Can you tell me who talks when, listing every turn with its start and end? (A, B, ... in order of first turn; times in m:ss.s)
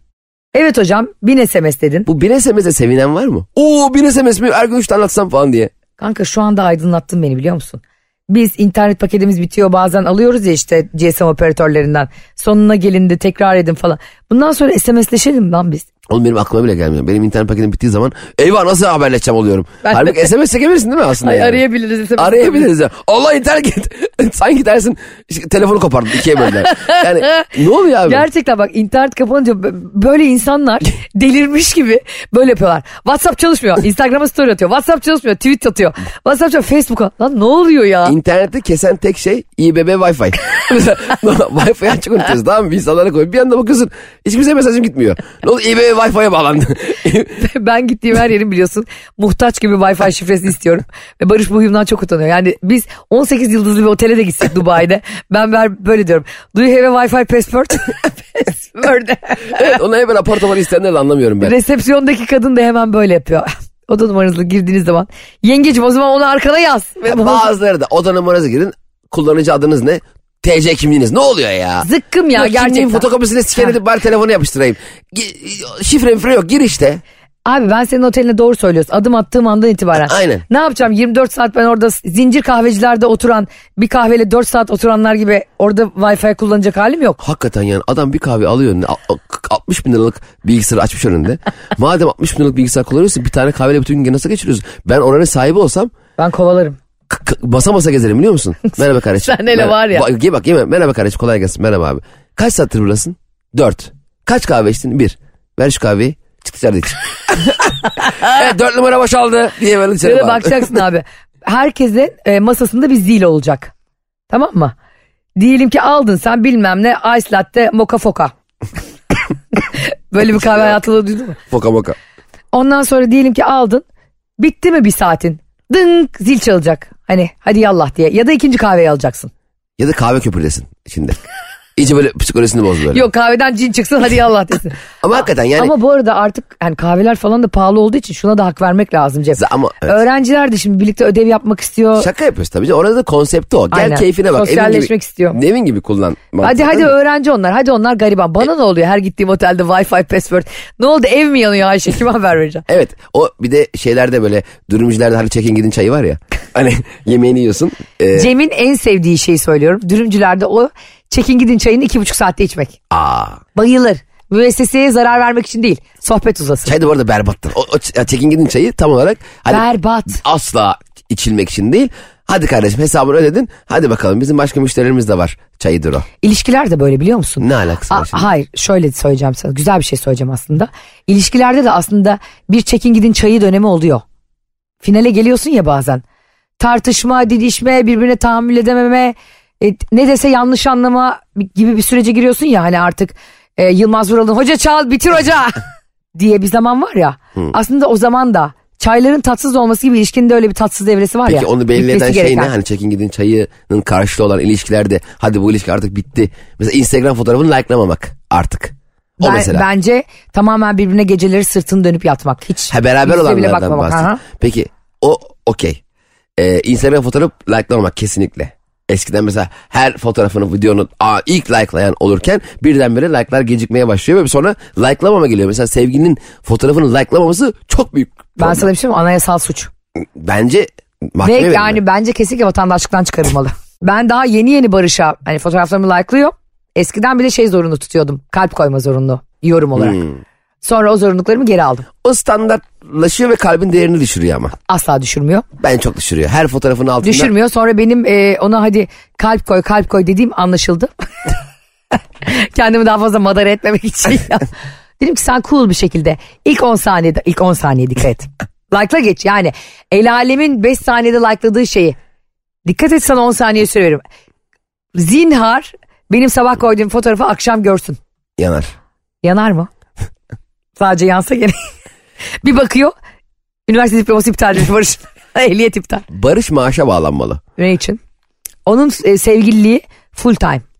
0:00.5-0:02.1 A
0:02.1-0:05.7 B
0:06.0-0:15.8 A
0:16.1-0:21.6 B
0:19.8-0:20.3 A
0:21.2-0:22.7 A
0:22.2-0:28.2 B
0:26.7-0:27.5 A
0:28.0-0:38.2 A
0:38.0-0:47.4 B
0:47.4-0:59.8 A
0:59.4-1:01.6 B
1:01.4-1:07.5 A
1:07.0-1:17.0 B
1:11.8-1:13.7 A
1:17.4-1:27.2 A
1:20.1-1:20.4 B
1:27.2-1:35.9 B
1:36.2-1:36.8 A
1:37.1-1:50.8 B
1:39.2-1:40.1 A
1:50.0-1:53.7 A
1:54.3-1:54.7 A
1:55.4-1:58.3 A
1:59.5-2:01.4 A
2:00.4-2:00.7 B
2:01.5-2:02.0 B
2:02.5-2:03.8 A
2:04.4-2:09.3 A
2:09.8-2:11.2 B
2:11.8-2:13.0 B
2:12.9-2:14.8 A
2:15.0-2:15.7 B
2:15.6-2:22.1 A
2:19.3-2:20.0 B
2:22.0-2:26.9 B
2:23.7-2:25.4 A
2:26.4-2:32.6 A
2:32.7-2:38.3 B
2:38.1-2:42.8 A
2:42.9-2:43.4 B
2:43.5-2:46.7 A
2:46.6-2:56.0 B
2:49.5-2:50.2 A
2:56.2-3:04.0 A
2:57.4-2:58.3 B
3:04.8-3:06.0 A
3:06.6-3:15.6 A
3:16.1-3:22.5 A
3:21.2-3:29.6 B
3:29.2-3:34.2 A
3:32.7-3:35.8 B
3:36.4-3:48.7 B
3:48.4-3:49.7 A
3:50.1-3:51.8 B
3:51.2-4:00.0 A
3:59.8-4:00.2 B
4:00.6-4:01.9 A
4:02.0-4:04.5 B
4:04.7-4:05.4 A
4:05.6-4:07.3 B
4:07.0-4:10.9 A
4:12.2-4:14.5 A
4:15.0-4:22.0 A
4:22.6-4:24.0 A
4:24.9-4:28.0 A
4:28.4-4:28.7 B
4:29.2-4:29.7 A
4:30.8-4:31.6 A
4:32.4-4:32.9 A
4:33.7-4:36.0 A
4:36.1-4:37.4 B
4:37.6-4:38.0 A
4:38.6-4:40.6 A